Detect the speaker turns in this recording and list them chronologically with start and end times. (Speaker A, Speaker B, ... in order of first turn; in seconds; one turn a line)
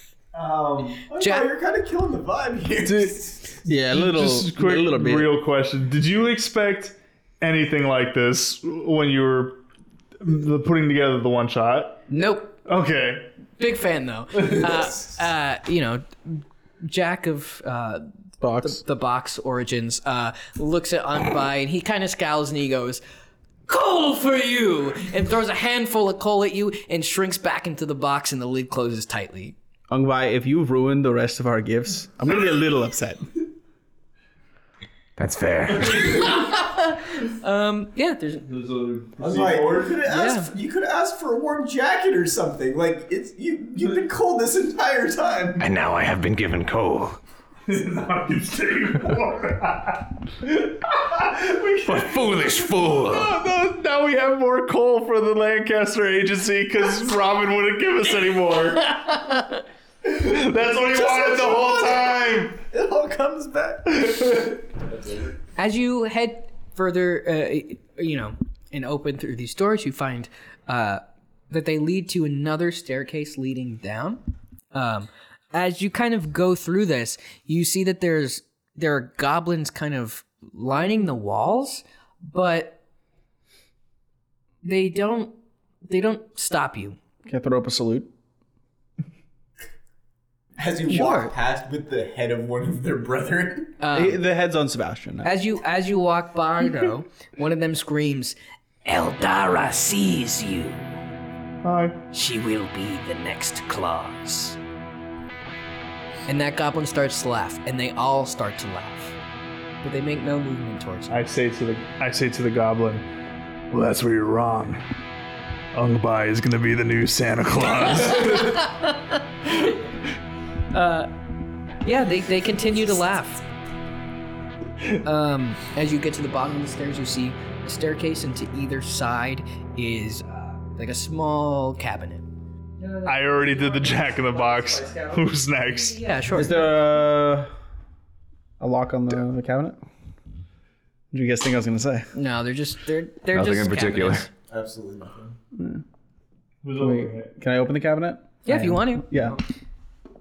Speaker A: 0.3-3.5
Speaker B: 1.2-1.5
Speaker C: 2.8-9.6
Speaker D: 3.7-5.3
Speaker C: 10.2-12.0
Speaker B: 12.1-12.6
Speaker C: 12.6-13.3
Speaker B: 13.6-18.1
Speaker C: 14.4-14.7
Speaker D: 18.4-18.8
Speaker B: 18.6-23.0
Speaker B: 23.7-29.6
Speaker D: 29.9-33.3
Speaker E: 35.2-36.3
Speaker B: 36.0-38.5
Speaker C: 38.5-39.9
Speaker A: 39.2-45.7
Speaker B: 40.1-40.5
Speaker E: 45.6-47.2
Speaker C: 47.7-59.1
Speaker E: 51.9-53.3
Speaker B: 58.9-59.6
Speaker C: 60.0-62.6
Speaker A: 60.9-64.1
Speaker C: 63.9-64.6
Speaker A: 64.7-65.4
Speaker B: 65.6-74.2
Speaker B: 74.7-82.8
Speaker B: 84.6-87.0
Speaker D: 87.2-88.1
Speaker A: 90.6-93.7
Speaker B: 90.9-91.3
Speaker B: 93.8-94.2
Speaker D: 93.9-95.3
Speaker B: 95.2-100.8
Speaker C: 101.6-102.0
Speaker B: 102.1-104.6
Speaker B: 106.3-109.2
Speaker B: 109.8-111.2
Speaker C: 111.1-113.1
Speaker C: 113.7-114.8
Speaker C: 115.7-118.7
Speaker B: 118.1-119.7
Speaker B: 120.7-121.1
Speaker B: 121.8-123.4
Speaker B: 125.0-132.3
Speaker B: 132.8-136.6
Speaker C: 133.1-136.0
Speaker D: 136.3-137.5
Speaker D: 138.6-139.8
Speaker D: 141.1-142.1
Speaker B: 142.1-144.3
Speaker E: 143.3-144.3
Speaker A: 144.5-145.4
Speaker D: 145.5-145.8
Speaker C: 146.6-147.3
Speaker D: 146.8-149.4
Speaker B: 148.4-149.4